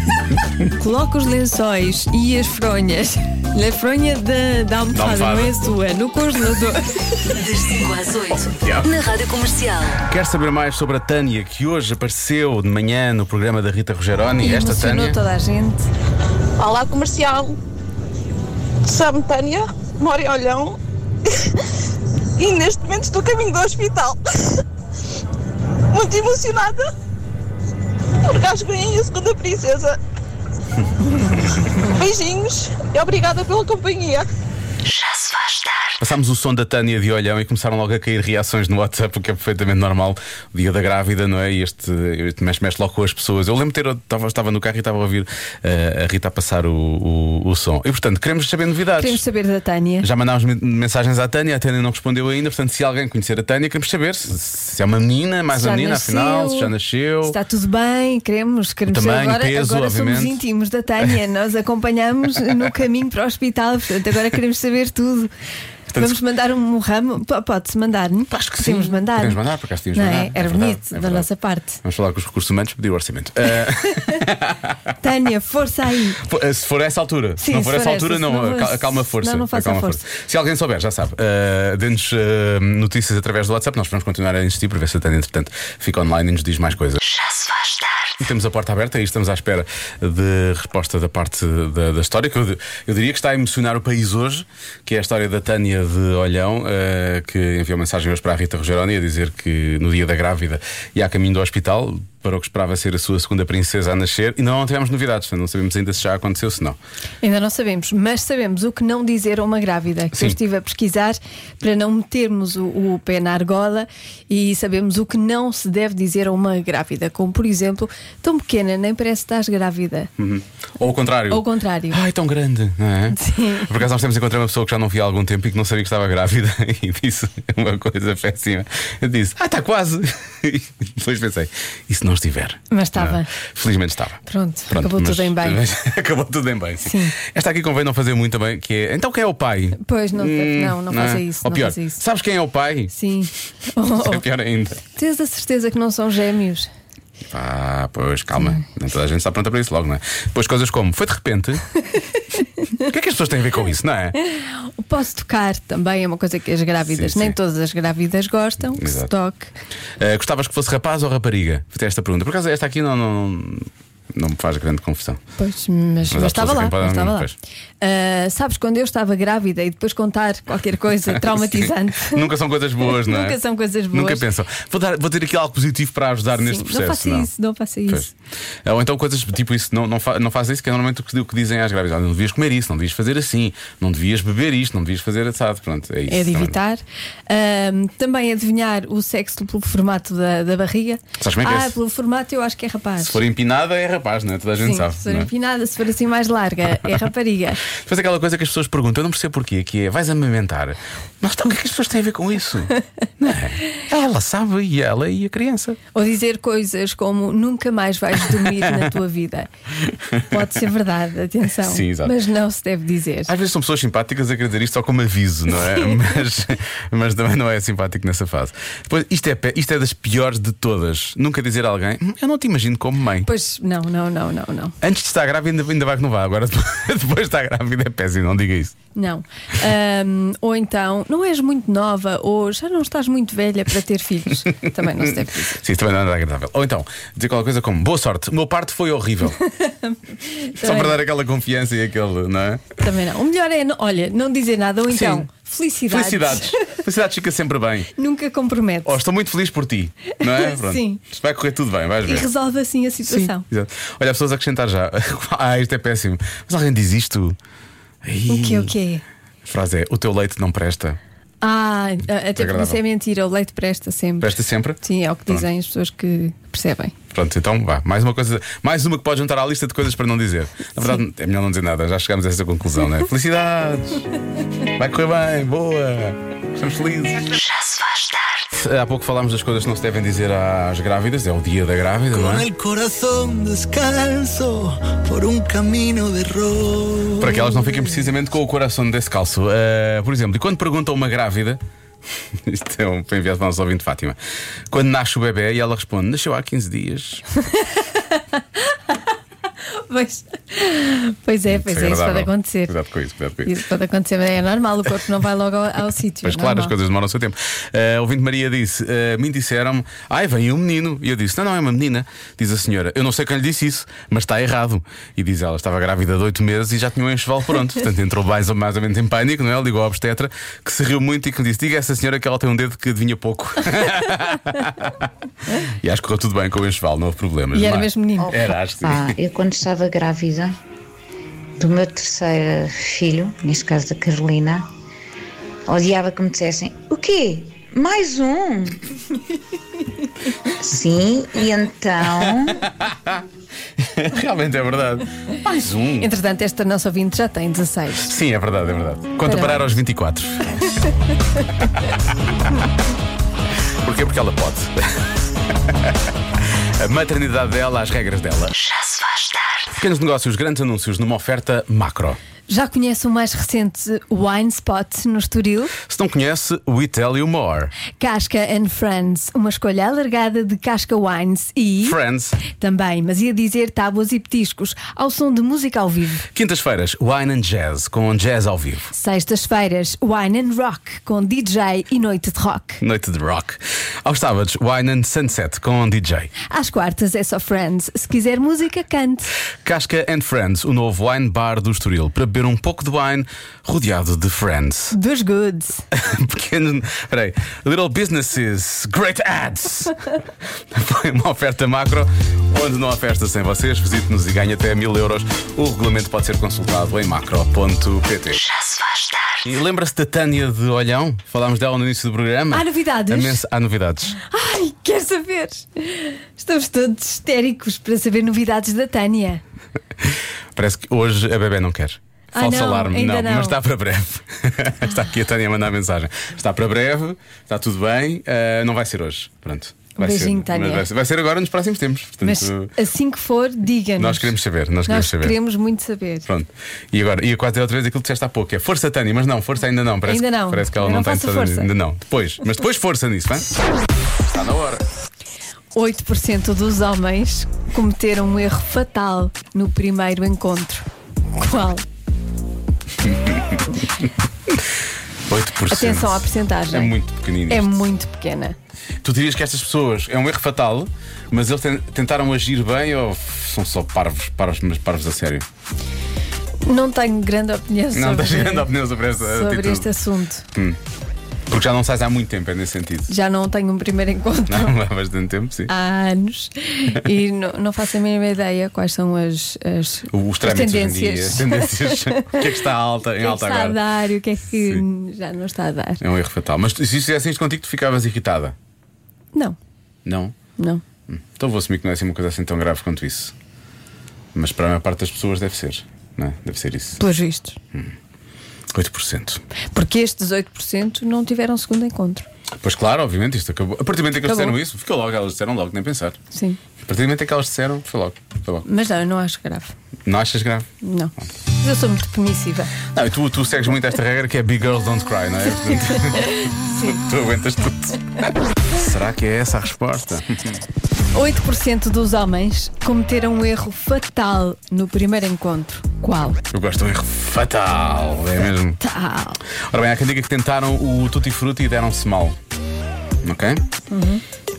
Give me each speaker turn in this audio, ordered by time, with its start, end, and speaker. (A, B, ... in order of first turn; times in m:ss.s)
0:00.8-0:06.9 A
0:04.9-0:05.5 B
0:07.4-0:10.0 C
0:08.6-0:09.0 B
0:10.0-0:15.2 B
0:14.4-0:15.9 A
0:16.6-0:17.6 D
0:18.8-0:20.8 D
0:22.4-0:24.1 D
0:25.9-0:26.9 D
0:28.3-0:30.0 D
0:31.1-0:31.8 B
0:32.0-0:34.3 D
0:36.0-0:49.2 B
0:49.0-0:50.1 A
0:50.0-0:57.4 B
0:55.5-0:56.7 A
0:57.2-1:05.3 A
0:58.8-1:00.4 B
1:05.9-1:06.2 B
1:05.9-1:09.4 A
1:08.3-1:11.3 B
1:09.9-1:11.8 A
1:11.8-1:14.8 B
1:15.0-1:16.2 A
1:16.2-1:27.0 B
1:17.4-1:20.0 A
1:28.2-1:46.8 B
1:47.2-2:00.1 A
1:50.1-1:50.4 B
2:00.2-2:22.9 B
2:01.3-2:02.0 A
2:03.2-2:03.7 A
2:12.7-2:13.3 A
2:14.2-2:15.6 A
2:16.8-2:17.2 A
2:19.8-2:22.0 A
2:22.9-2:24.2 A
2:23.9-2:24.8 B
2:24.9-2:26.7 A
2:27.3-2:31.6 B
2:32.8-2:34.2 B
2:34.2-2:39.5 A
2:36.9-2:37.4 B
2:38.8-2:39.1 B
2:40.0-2:45.2 B
2:45.4-2:47.3 A
2:46.1-2:47.3 B
2:47.8-2:54.2 A
2:51.3-2:53.4 B
2:53.9-2:57.3 B
2:56.4-2:58.1 A
2:58.7-3:06.6 B
3:06.1-3:13.2 A
3:11.2-3:11.8 B
3:13.0-3:15.3 B
3:14.6-3:17.6 A
3:17.8-3:25.8 B
3:25.9-3:29.5 A
3:28.3-3:28.9 B
3:29.9-3:30.4 B
3:30.3-3:33.3 A
3:31.6-3:32.2 B
3:33.3-3:43.3 B
3:43.2-3:44.7 A
3:44.8-3:48.8 B
3:48.9-3:55.6 A
3:55.0-3:59.4 B
3:59.4-4:01.0 A
4:00.6-4:02.7 B
4:02.8-4:06.7 A
4:04.9-4:05.3 B
4:05.9-4:07.9 B
4:08.0-4:09.0 A
4:08.8-4:12.3 B
4:10.2-4:11.0 A
4:12.0-4:13.4 A
4:13.0-4:17.4 B
4:18.0-4:18.7 B
4:18.3-4:19.0 A
4:19.4-4:21.0 B
4:21.4-4:26.9 A
4:22.4-4:22.8 B
4:24.2-4:25.4 B
4:27.1-4:34.1 B
4:34.6-4:37.4 B
4:38.5-4:42.5 B
4:42.1-4:47.3 E
4:47.2-4:51.6 B
4:52.4-4:54.2 B
4:54.7-4:57.2 B
4:57.5-4:59.0 A
4:59.7-5:02.8 A
5:01.5-5:03.5 B
5:03.4-5:06.8 A
5:06.2-5:29.2 B
5:27.5-5:28.4 A
5:28.9-5:30.5 F
5:31.6-5:34.6 F
5:35.7-5:38.7 F
5:40.6-5:42.5 F
5:42.5-5:43.2 B
5:43.8-5:46.1 B
5:46.0-5:48.2 A
5:48.0-5:50.4 B
5:49.2-5:49.7 A
5:53.8-5:56.0 B
5:56.8-5:58.7 B
5:59.7-6:02.2 B
6:02.5-6:05.8 A
6:05.9-6:07.7 B
6:08.0-6:12.0 A
6:11.8-6:12.4 B
6:12.5-6:16.3 A
6:16.3-6:18.9 B
6:18.9-6:22.8 A
6:22.8-6:26.3 B
6:26.5-6:29.3 A
6:29.6-6:35.0 B
6:34.9-6:35.8 A
6:35.9-6:40.0 B
6:40.7-6:48.4 B
6:49.4-6:54.2 B
6:52.5-6:53.4 A
6:54.2-6:59.4 A
7:00.0-7:12.7 B
7:02.3-7:03.6 A
7:10.0-7:10.9 A
7:12.2-7:14.3 A
7:14.0-7:15.4 B
7:14.9-7:16.2 A
7:16.2-7:23.5 B
7:20.0-7:21.7 A
7:24.3-7:24.8 B
7:25.8-7:30.9 A
7:31.4-7:31.8 A
7:33.0-7:33.8 B
7:35.3-7:37.8 B
7:35.7-7:36.9 A
7:37.5-7:38.6 A
7:39.0-7:45.4 B
7:46.6-7:50.4 A
7:47.9-7:49.9 B
7:51.5-7:53.1 B
7:53.1-7:54.7 A
7:54.5-7:55.7 B
7:55.7-8:02.6 A
8:00.1-8:03.8 B
8:03.2-8:06.0 A
8:06.0-8:08.5 B
8:10.0-8:10.3 B
8:10.6-8:10.8 A
8:11.1-8:13.3 B
8:14.3-8:17.0 B
8:17.0-8:17.6 A
8:18.7-8:19.4 B
8:19.7-8:22.2 A
8:22.6-8:26.2 B
8:24.3-8:24.6 A
8:26.3-8:26.6 A
8:26.9-8:28.6 B
8:28.6-8:29.7 A
8:30.1-8:30.7 B
8:30.8-8:32.7 A
8:32.9-8:40.6 B
8:41.1-8:46.4 A
8:46.5-8:48.8 B
8:48.8-8:49.4 A
8:49.7-8:52.4 B
8:53.2-8:53.6 B
8:53.9-8:54.2 A